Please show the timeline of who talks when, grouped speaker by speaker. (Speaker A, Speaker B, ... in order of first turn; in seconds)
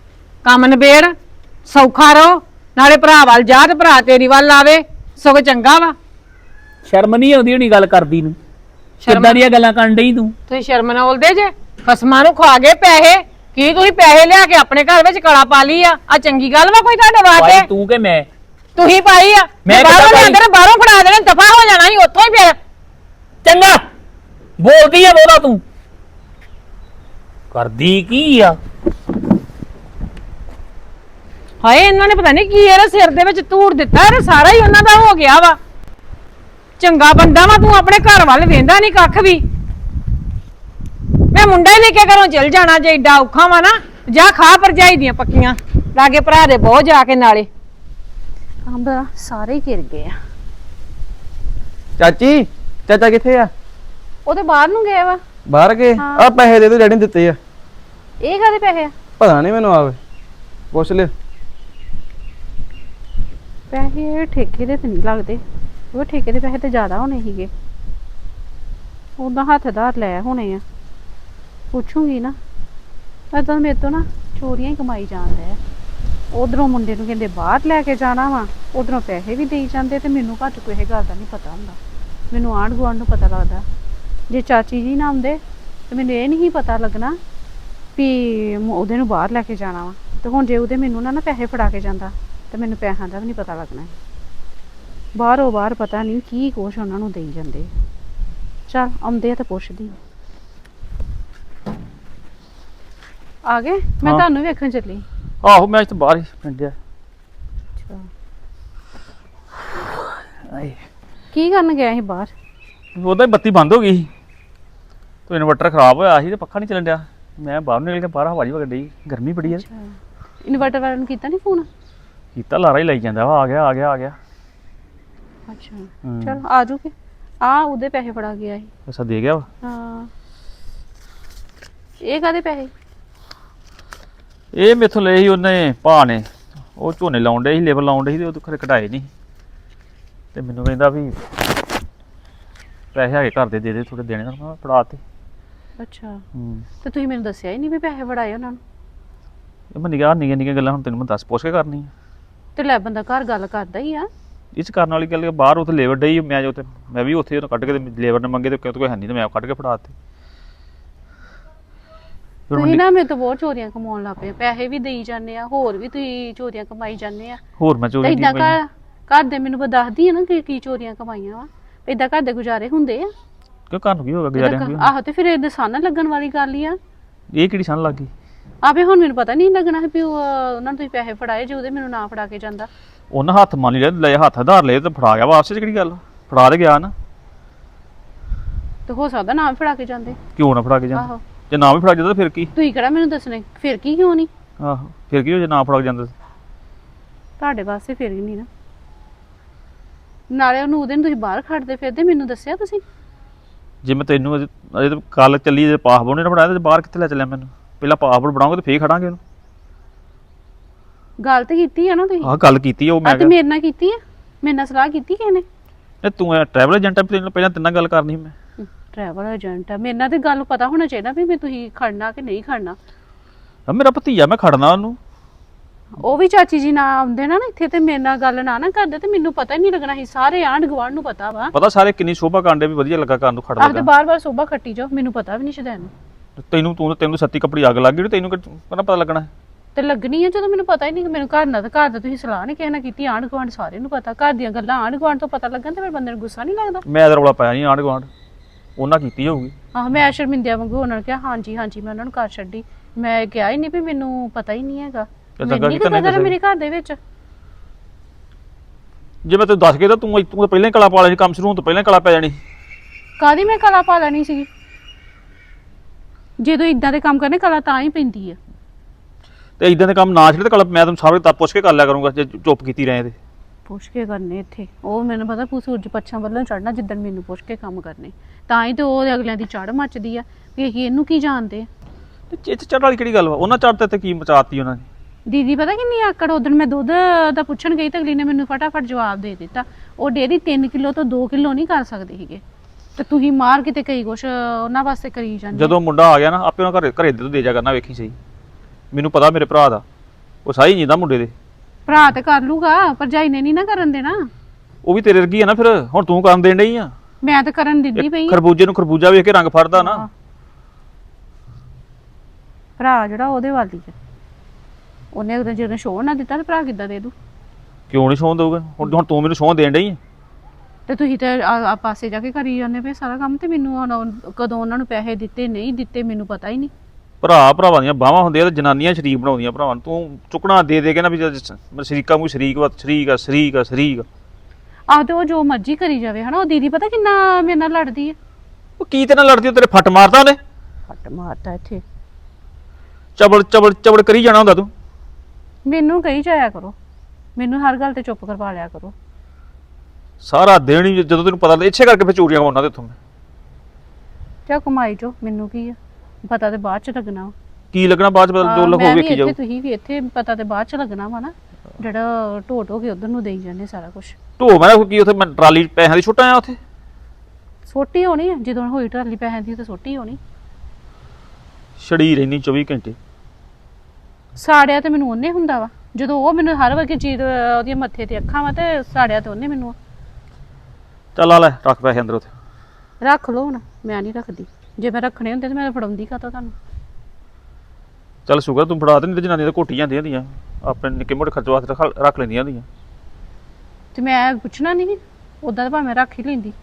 Speaker A: 0.4-6.0, 9.0-9.4, 10.5-17.7, 18.8-22.6, 31.6-35.6, 36.8-39.5, 41.3-47.5
Speaker B: 6.9-8.4, 9.1-10.3, 17.4-18.3, 19.6-20.4, 23.4-23.8, 24.6-25.6, 27.5-28.6
Speaker C: 48.7-50.1, 54.3-55.2, 56.0-56.3, 58.2-58.9, 63.7-65.4, 65.9-67.5, 69.2-70.6, 71.7-72.4, 73.3-75.6, 76.3-81.8, 82.3-83.7, 84.3-87.2, 88.0-93.9, 95.2-97.7, 98.7-100.0, 103.5-105.0, 107.8-108.1, 111.3-112.3, 119.5-121.7, 125.5-128.7, 129.6-130.1, 132.0-132.7, 145.8-146.2, 146.8-148.6, 152.6-154.1, 162.5-167.4, 168.0-173.1, 174.4-176.8, 178.6-182.7, 188.9-190.2, 192.6-194.3, 197.4-198.5, 200.3-202.8, 211.2-212.3, 213.0-215.4, 218.6-222.8, 226.0-231.5, 233.6-235.9, 239.8-246.8, 249.8-257.0, 263.2-264.5, 266.4-268.4, 273.7-281.7, 285.3-292.4, 293.0-295.8, 301.9-304.2, 307.2-308.4, 309.8-310.1, 312.8-313.9, 315.1-317.1, 320.9-326.7, 334.9-338.2, 340.9-341.8, 345.7-346.8, 347.4-348.9, 354.5-357.3, 358.4-364.2, 367.7-370.2, 374.4-379.8, 383.0-386.6, 393.9-396.5
Speaker D: 52.0-53.5, 55.5-57.4, 59.2-60.0, 60.7-61.1
Speaker E: 105.4-106.8, 110.5-110.8, 113.0-114.1, 115.3-119.6, 122.3-124.2, 126.0-126.4, 128.9-129.5, 134.6-139.1, 140.3-141.2, 142.9-145.0, 146.4-146.7, 149.8-151.9, 154.6-159.9, 162.5-162.8, 167.6-168.6, 173.7-174.9, 177.3-178.1, 183.1-186.9, 190.4-192.5, 194.6-196.1, 203.8-209.2, 212.2-213.3, 216.0-218.3, 223.7-225.0, 231.5-233.9, 236.4-239.3, 246.9-248.1, 248.8-249.5, 255.4-256.3, 259.2-262.4, 269.6-273.2, 282.3-284.9, 295.5-298.2, 298.9-299.8, 300.4-301.3, 304.9-306.9, 308.0-310.0, 317.9-320.0, 327.2-334.1, 338.8-340.4, 343.2-344.7, 350.2-353.0, 357.7-359.4, 364.4-366.6, 371.8-373.0, 381.2-382.3, 388.3-392.7